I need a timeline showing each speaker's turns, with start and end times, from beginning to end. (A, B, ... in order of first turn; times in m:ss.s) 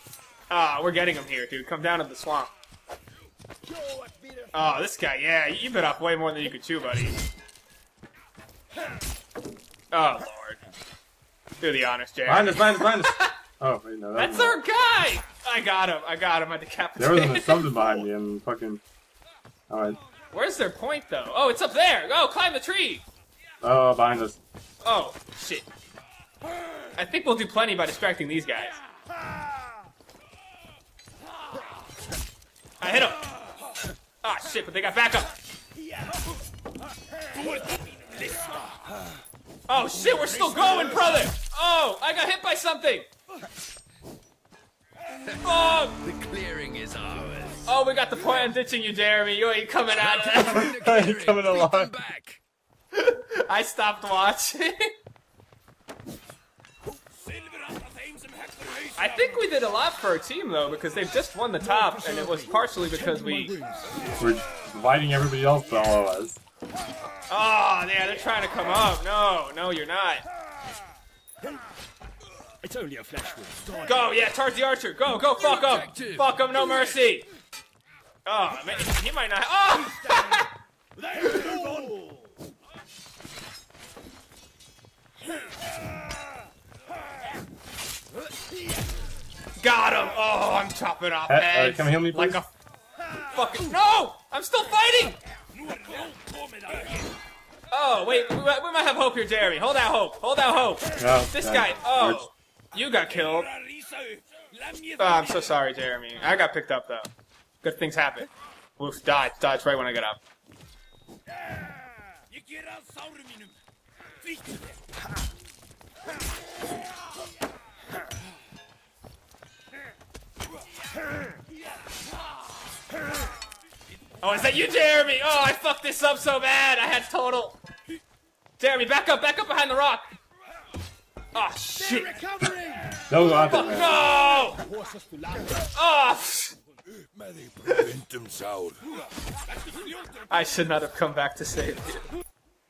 0:00.5-0:02.5 A
0:03.8-0:04.4 B
0:04.5-0:07.2 A
0:09.9-0:10.6 A
0:11.6-0:13.3 A
0:12.3-0:14.6 C
0:14.2-0:18.0 A
0:17.0-0:18.8 C
0:19.7-0:20.0 C
0:20.3-0:23.0 A
0:23.6-0:24.4 C
0:24.8-0:25.7 A
0:27.0-0:28.8 A
0:32.8-0:33.2 A
0:34.2-0:35.4 A
0:39.7-0:43.1 A
0:45.2-0:47.7 D
0:45.4-0:46.0 A
0:47.7-0:50.7 A
0:49.9-0:52.4 D
0:50.5-0:51.9 C
0:52.9-0:54.9 A
0:58.4-0:58.8 B
0:59.0-1:03.6 A
1:04.2-1:06.4 C
1:07.3-1:10.2 A
1:12.6-1:13.8 B
1:13.8-1:17.3 A
1:15.4-1:16.3 D
1:18.2-1:20.5 A
1:21.2-1:21.6 A
1:21.2-1:22.1 B
1:29.6-1:32.5 A
1:31.3-1:32.4 C
1:33.3-1:35.2 A
1:37.7-1:43.5 A
1:41.0-1:42.2 C
1:45.0-1:47.1 A
1:47.6-1:50.2 A
2:04.2-2:07.6 A
2:08.6-2:10.1 A
2:11.3-2:12.2 A
2:12.2-2:12.8 B
2:13.1-2:14.0 C
2:13.2-2:14.6 A
2:14.7-2:15.3 B
2:15.7-2:16.6 A
2:17.9-2:18.8 D
2:20.3-2:22.1 A